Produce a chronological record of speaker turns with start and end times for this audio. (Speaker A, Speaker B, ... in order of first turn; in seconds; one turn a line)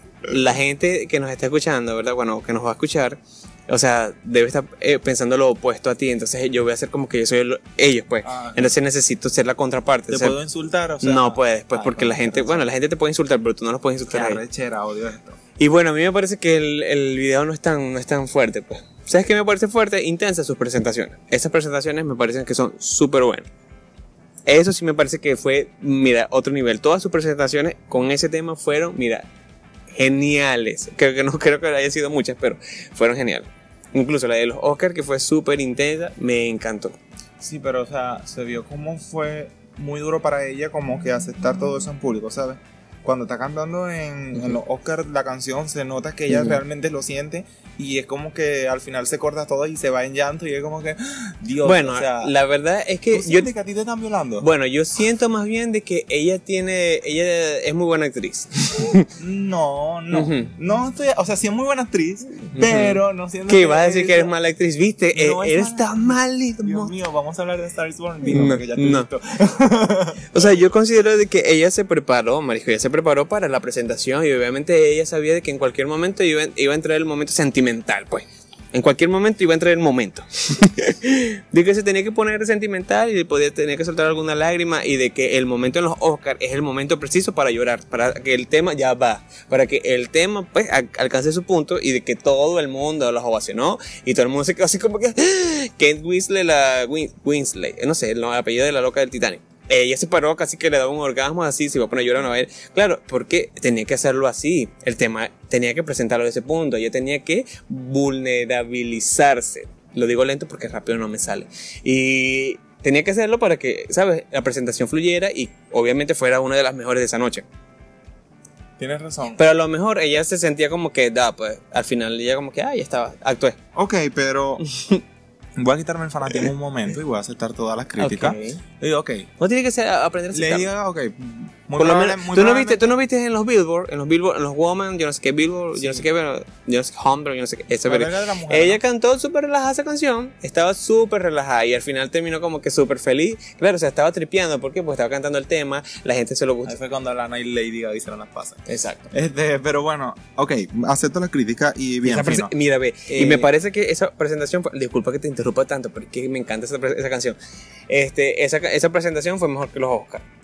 Speaker A: 0.2-10.4
Speaker B: 8.2-8.7
Speaker B: 10.1-12.7
Speaker A: 11.0-14.4
Speaker B: 14.1-15.4
Speaker A: 15.6-23.5
Speaker A: 24.5-29.3
Speaker A: 29.9-37.0
Speaker B: 37.4-52.3
Speaker A: 46.3-46.6
Speaker A: 51.6-53.5
Speaker B: 53.1-54.5
Speaker A: 54.4-59.1
Speaker B: 59.2-64.3
Speaker A: 60.1-60.5
Speaker A: 62.5-66.9
Speaker B: 65.1-70.6
Speaker A: 68.2-69.1
Speaker A: 70.3-117.5
Speaker B: 118.8-119.4
Speaker A: 119.4-123.6
Speaker B: 123.8-124.6
Speaker A: 124.7-125.0
Speaker B: 125.6-129.3
Speaker A: 128.0-128.6
Speaker A: 129.4-130.7
Speaker B: 130.3-132.9
Speaker A: 131.8-146.8
Speaker B: 135.8-136.1
Speaker B: 137.8-138.8
Speaker B: 146.7-152.5
Speaker A: 148.7-149.1
Speaker A: 152.0-157.4
Speaker B: 153.1-153.5
Speaker A: 157.9-160.2